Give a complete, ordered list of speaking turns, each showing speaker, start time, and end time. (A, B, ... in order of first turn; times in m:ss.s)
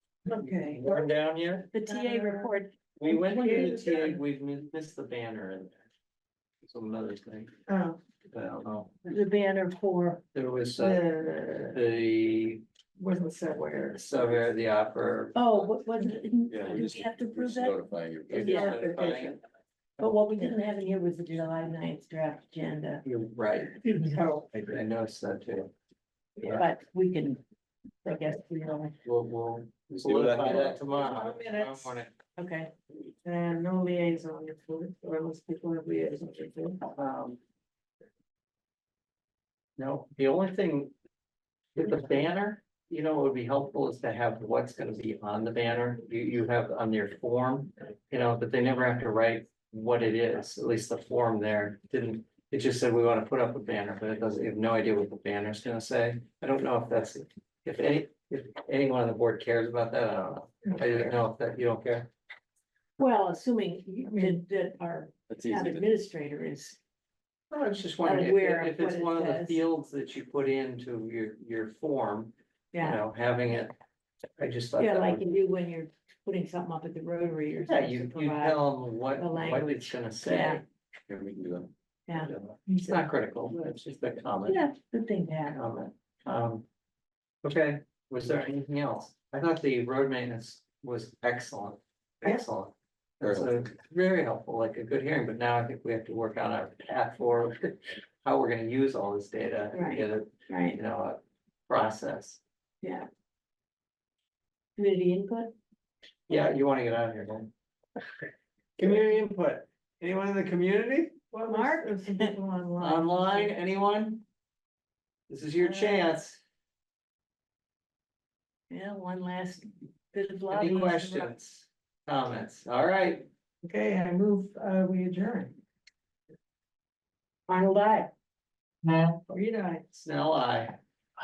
0:00.3-0:01.1 A
0:00.4-0:01.7 B
0:01.7-0:02.7 C
0:01.8-0:02.5 A
0:03.0-0:05.8 B
0:03.1-0:04.2 A
0:06.6-0:07.5 B
0:07.7-0:08.0 A
0:08.3-0:09.1 B
0:09.1-0:10.2 C
0:10.3-0:11.0 B
0:10.8-0:11.8 A
0:11.7-0:12.6 B
0:13.0-0:14.0 A
0:13.9-0:15.7 B
0:15.3-0:19.0 C
0:16.5-0:19.2 D
0:18.3-0:19.4 B
0:18.6-0:19.3 A
0:20.0-0:23.0 C
0:23.0-0:25.7 B
0:23.8-0:24.5 A
0:26.4-0:27.4 C
0:28.0-0:28.9 C
0:29.0-0:32.1 B
0:30.0-0:30.8 D
0:30.7-0:31.9 A
0:32.4-0:32.7 C
0:33.2-0:36.8 A
0:36.9-0:37.4 B
0:39.8-0:40.9 B
0:41.8-1:02.1 B
1:03.0-1:06.8 C
1:05.3-1:05.9 D
1:07.5-1:13.7 B
1:08.0-1:09.6 C
1:12.7-1:13.0 C
1:14.4-1:15.3 B
1:14.8-1:20.6 C
1:17.7-1:20.6 B
1:21.1-1:21.7 D
1:22.1-1:23.0 C
1:22.2-1:24.6 B
1:24.5-1:25.6 C
1:25.5-1:26.6 B
1:27.4-1:42.4 B
1:39.7-1:40.8 C
1:42.8-1:43.1 C
1:44.8-1:45.5 C
1:46.3-1:47.5 B
1:48.8-1:51.2 B
1:51.3-1:53.5 A
1:51.4-1:52.4 C
1:52.8-1:54.2 B
1:55.3-1:56.4 B
1:55.6-1:56.0 C
1:58.7-2:01.3 C
2:00.5-2:03.3 B
2:03.6-2:05.6 A
2:07.5-2:08.1 C
2:08.8-2:09.1 B
2:09.3-2:09.8 C
2:09.9-2:10.8 B